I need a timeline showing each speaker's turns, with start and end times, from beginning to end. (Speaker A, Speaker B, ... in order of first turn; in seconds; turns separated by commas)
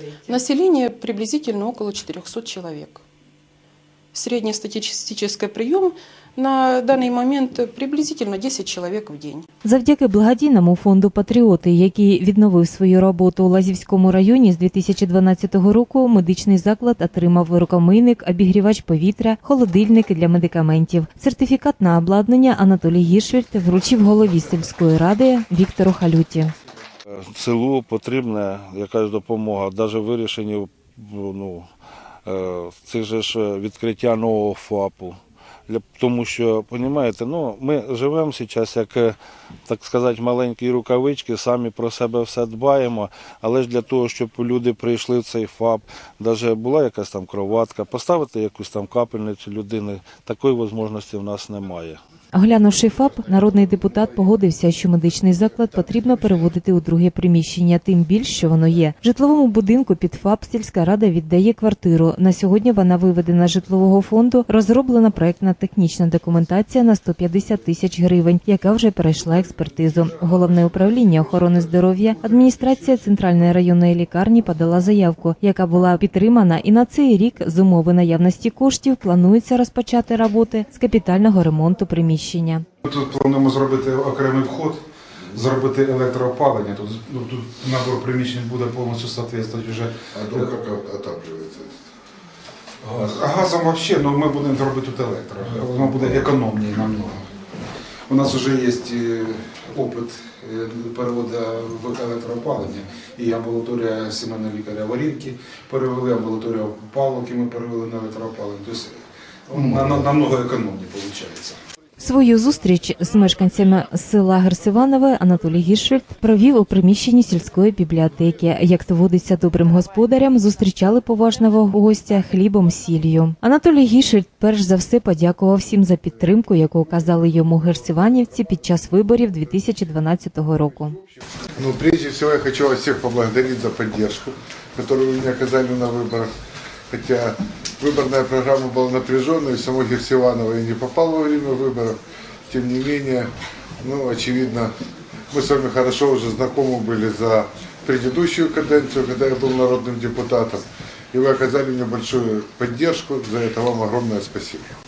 Speaker A: 0.3-3.0, Speaker A: 4.1-9.4, Speaker B: 9.6-26.5, Speaker C: 27.1-31.7, Speaker C: 32.2-52.0, Speaker B: 52.3-82.6, Speaker D: 82.8-90.5, Speaker E: 90.1-91.7, Speaker D: 92.8-97.3, Speaker D: 98.1-111.6, Speaker B: 112.0-130.9, Speaker E: 131.6-136.3, Speaker E: 136.9-142.0, Speaker E: 142.5-143.3, Speaker E: 143.8-144.7, Speaker E: 145.3-154.7